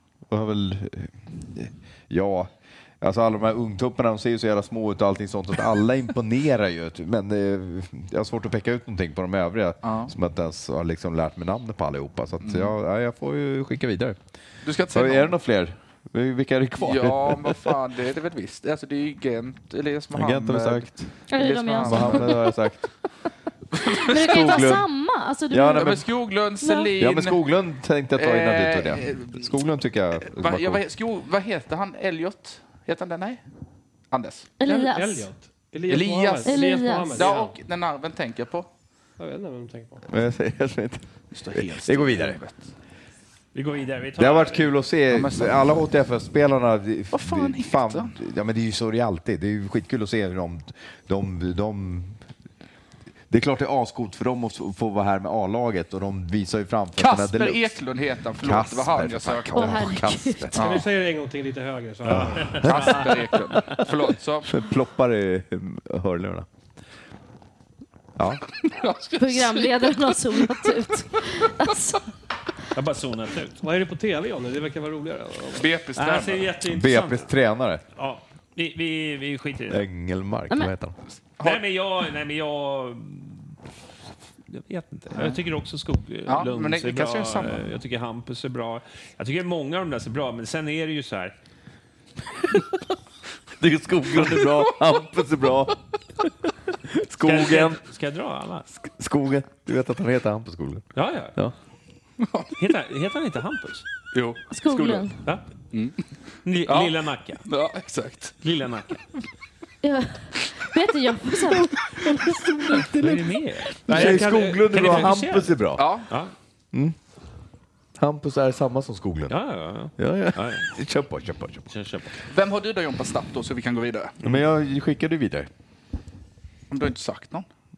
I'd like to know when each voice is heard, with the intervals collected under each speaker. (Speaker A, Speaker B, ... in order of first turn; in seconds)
Speaker A: 0.3-14.2, 14.9-17.7, 20.1-21.1, 21.7-22.9, 24.0-24.9, 25.5-26.1, 27.0-30.8, 40.1-42.4, 44.2-52.2, 53.3-57.8, 58.4-60.7, 62.0-63.1, 64.4-66.5, 68.2-68.4, 76.6-77.8, 79.7-81.0, 93.6-96.3, 96.8-97.8, 98.8-101.5, 112.0-115.8, 118.0-119.4, 120.0-121.7, 124.2-125.5
Speaker B: 9.8-10.1, 12.4-12.7, 14.6-15.3, 16.8-22.3, 25.7-27.4, 28.1-29.5, 30.3-33.4, 34.1-34.6, 35.9-38.7, 41.3-42.7, 45.1-45.7, 47.1-48.1, 57.0-59.9, 60.5-60.9, 62.3-64.5, 68.6-70.6, 75.5-76.5, 85.1-85.4, 86.3-87.7, 94.2-94.9, 102.2-102.5, 104.1-105.1, 106.6-108.3, 113.9-114.3, 115.8-116.1, 122.3-124.1, 126.7-127.4
Speaker C: 21.3-22.4, 24.0-25.9, 26.6-26.9, 34.6-35.3, 36.4-37.2, 59.5-60.5, 69.2-72.0, 104.5-105.1, 109.8-111.7
Speaker D: 34.6-37.5, 39.2-40.0, 60.6-62.9, 73.6-75.7, 114.0-114.7
Speaker E: 43.5-44.7, 62.4-63.1, 72.7-73.6, 76.0-77.3, 78.0-79.8, 81.4-83.5, 84.5-91.3, 97.2-98.7, 100.9-101.4, 102.6-103.8, 106.4-107.4, 108.4-109.0, 113.0-116.3, 119.3-120.7, 121.7-122.2